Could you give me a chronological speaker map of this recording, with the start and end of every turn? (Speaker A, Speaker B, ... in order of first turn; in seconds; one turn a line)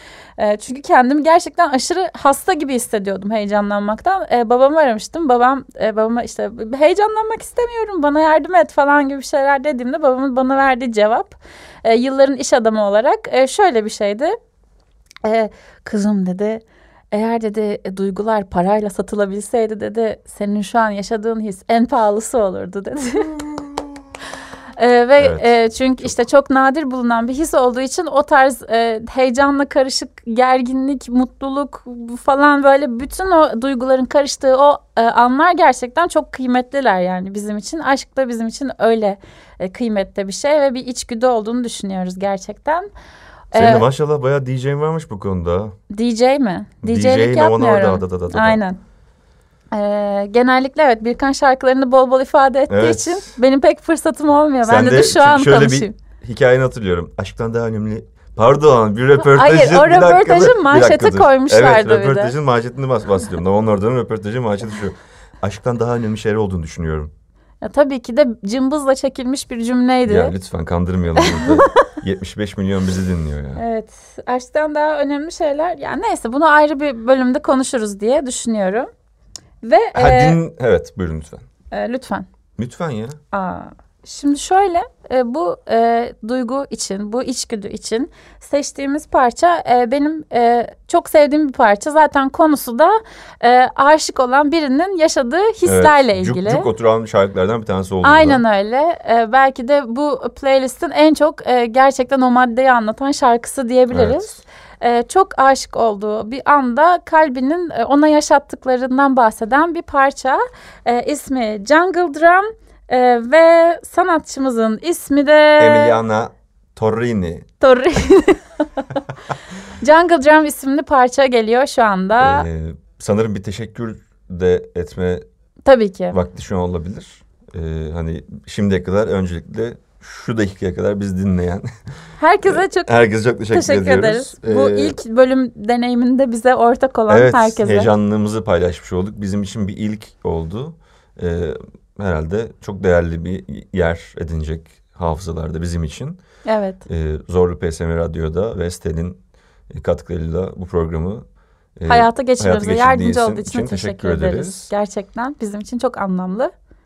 Speaker A: 0.4-14.3
Speaker A: 15.2-23.4
Speaker A: 24.8-42.9
Speaker B: 25.2-26.2
Speaker B: 43.5-45.8
Speaker A: 43.5-43.9
Speaker A: 45.9-48.8
Speaker B: 46.8-48.6
Speaker A: 49.7-55.9
Speaker B: 52.7-53.4
Speaker B: 54.6-67.1
Speaker A: 59.2-62.3
Speaker A: 67.6-70.3
Speaker B: 70.0-73.6
Speaker A: 71.2-71.9
Speaker A: 73.5-78.9
Speaker A: 79.6-80.4
Speaker B: 79.9-81.4
Speaker A: 81.7-82.3
Speaker B: 82.6-83.2
Speaker A: 83.3-96.7
Speaker B: 95.6-98.4
Speaker A: 98.0-116.0
Speaker B: 103.9-104.4
Speaker B: 115.6-117.5
Speaker A: 117.6-119.0
Speaker A: 119.7-122.5
Speaker B: 122.2-125.2
Speaker A: 125.7-126.2
Speaker B: 126.1-131.7
Speaker A: 132.2-132.9
Speaker B: 132.4-135.0
Speaker A: 133.5-137.9
Speaker B: 137.1-146.2
Speaker A: 146.4-146.8
Speaker B: 146.8-149.2
Speaker B: 149.7-151.2
Speaker B: 151.8-154.7
Speaker A: 151.8-156.5